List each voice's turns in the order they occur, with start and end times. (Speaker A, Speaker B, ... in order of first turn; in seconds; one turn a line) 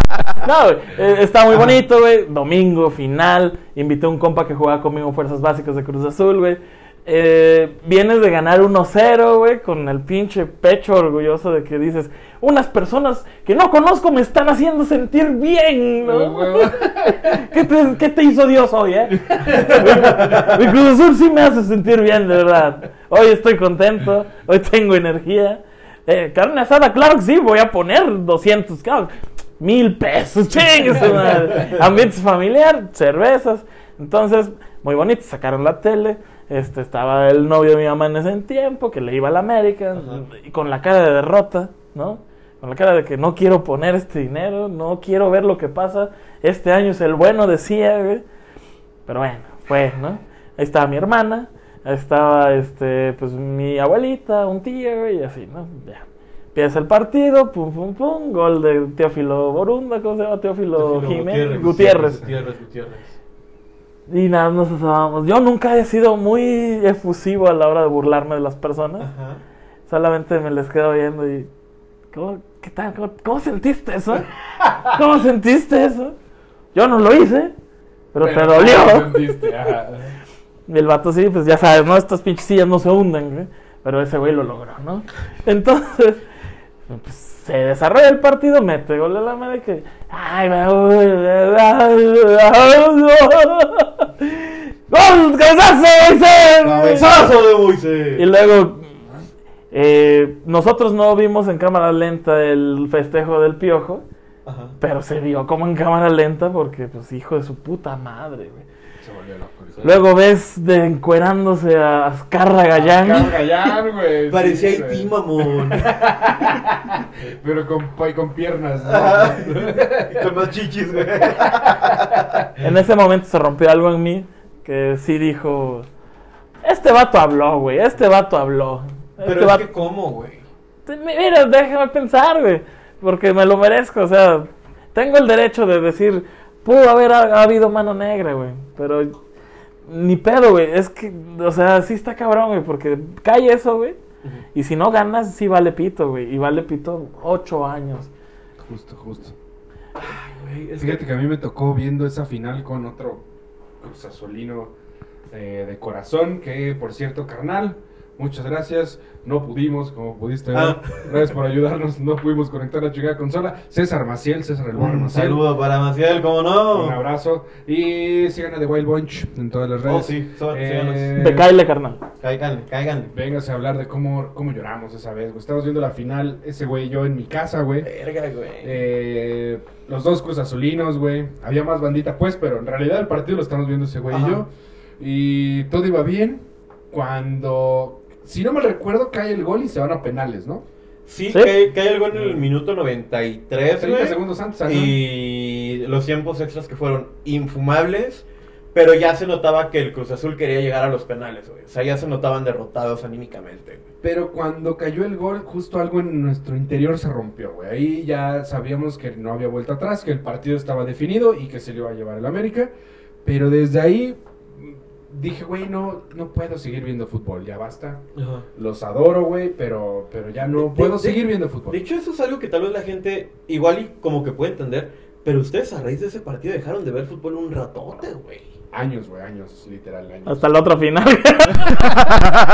Speaker A: 0.4-48.2
Speaker B: 16.0-17.5
Speaker B: 19.2-20.2
Speaker C: 19.7-20.6
Speaker C: 40.0-40.2
Speaker A: 49.1-62.2
Speaker C: 60.8-63.1
Speaker B: 61.5-62.3
Speaker A: 64.1-69.1
Speaker C: 69.0-69.4
Speaker A: 69.9-71.5
Speaker A: 72.1-74.3
Speaker B: 74.6-75.0
Speaker A: 74.8-76.2
Speaker A: 76.8-77.5
Speaker A: 78.1-79.4
Speaker B: 78.2-80.2
Speaker A: 80.7-86.2
Speaker A: 86.9-97.3
Speaker C: 96.6-98.2
Speaker A: 98.2-99.1
Speaker A: 99.7-104.0
Speaker C: 104.5-104.8
Speaker A: 104.8-108.7
Speaker B: 109.0-110.0
Speaker A: 109.8-113.3
Speaker B: 112.8-120.3
Speaker C: 114.3-115.9
Speaker C: 118.8-122.4
Speaker B: 121.3-122.1
Speaker A: 122.6-125.9
Speaker A: 126.6-129.7
Speaker C: 129.2-130.5
Speaker A: 130.9-139.2
Speaker A: 139.9-144.0
Speaker A: 144.6-148.1
Speaker B: 148.6-149.4
Speaker C: 150.0-151.0
Speaker B: 150.8-153.2
Speaker B: 153.8-154.7
Speaker B: 155.3-165.4
Speaker C: 160.5-161.2
Speaker C: 164.7-167.0
Speaker B: 166.7-171.5
Speaker C: 169.9-171.2
Speaker A: 171.2-172.0
Speaker C: 172.2-173.1
Speaker B: 173.1-177.9
Speaker C: 177.8-178.8
Speaker B: 178.6-190.7
Speaker C: 184.1-184.4
Speaker C: 191.1-203.9
Speaker B: 192.1-192.4
Speaker B: 193.8-195.0
Speaker B: 204.0-212.7
Speaker B: 213.2-218.0
Speaker C: 218.2-218.5
Speaker B: 218.6-221.8
Speaker C: 220.5-228.5
Speaker B: 228.7-230.4
Speaker A: 230.3-232.2